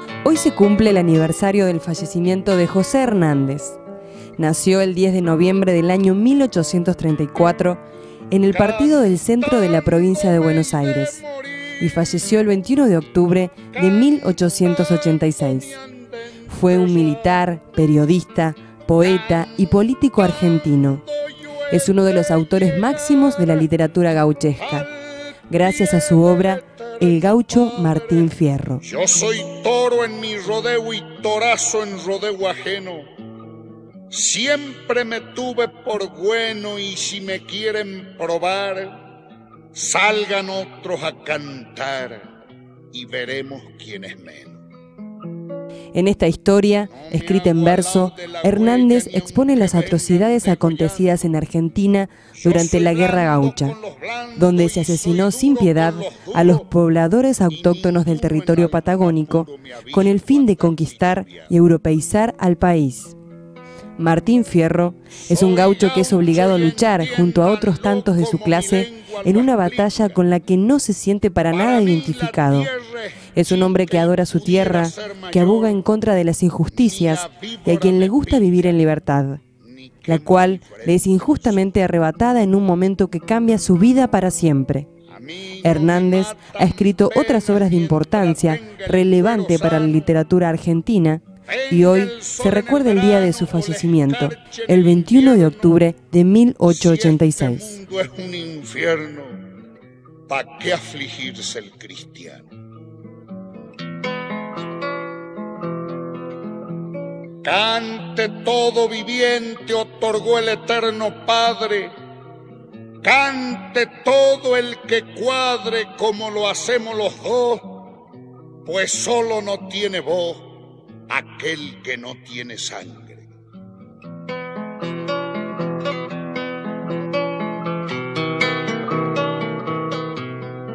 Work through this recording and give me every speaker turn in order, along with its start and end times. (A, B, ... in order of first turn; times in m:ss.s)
0:00.2-0:03.8 A
0:04.4-0:11.2 A
0:08.5-0:11.9 B
0:11.8-0:15.8 A
0:13.7-0:17.4 B
0:16.5-0:21.0 A
0:19.0-0:19.7 B
0:20.9-0:23.7 B
0:21.7-0:24.9 A
0:24.6-0:28.3 B
0:25.5-0:28.8 A
0:28.8-0:33.1 B
0:34.1-0:39.0 B
0:39.7-0:42.3 B
0:42.9-0:44.6 B
0:45.9-0:53.8 A
0:46.9-0:51.1 B
0:52.4-0:56.7 B
0:54.4-1:03.2 A
0:57.5-1:01.5 B
1:04.0-1:12.7 A
1:05.3-1:10.2 B
1:11.5-1:15.8 B
1:13.3-1:19.4 A
1:16.7-1:18.8 B
1:19.6-1:21.7 B
1:20.0-1:24.9 A
1:25.1-1:30.1 B
1:25.6-1:37.8 A
1:31.5-1:35.8 B
1:36.6-1:39.5 B
1:40.3-1:42.4 B
1:47.4-1:52.0 B
1:53.0-1:58.0 B
1:58.6-2:03.2 B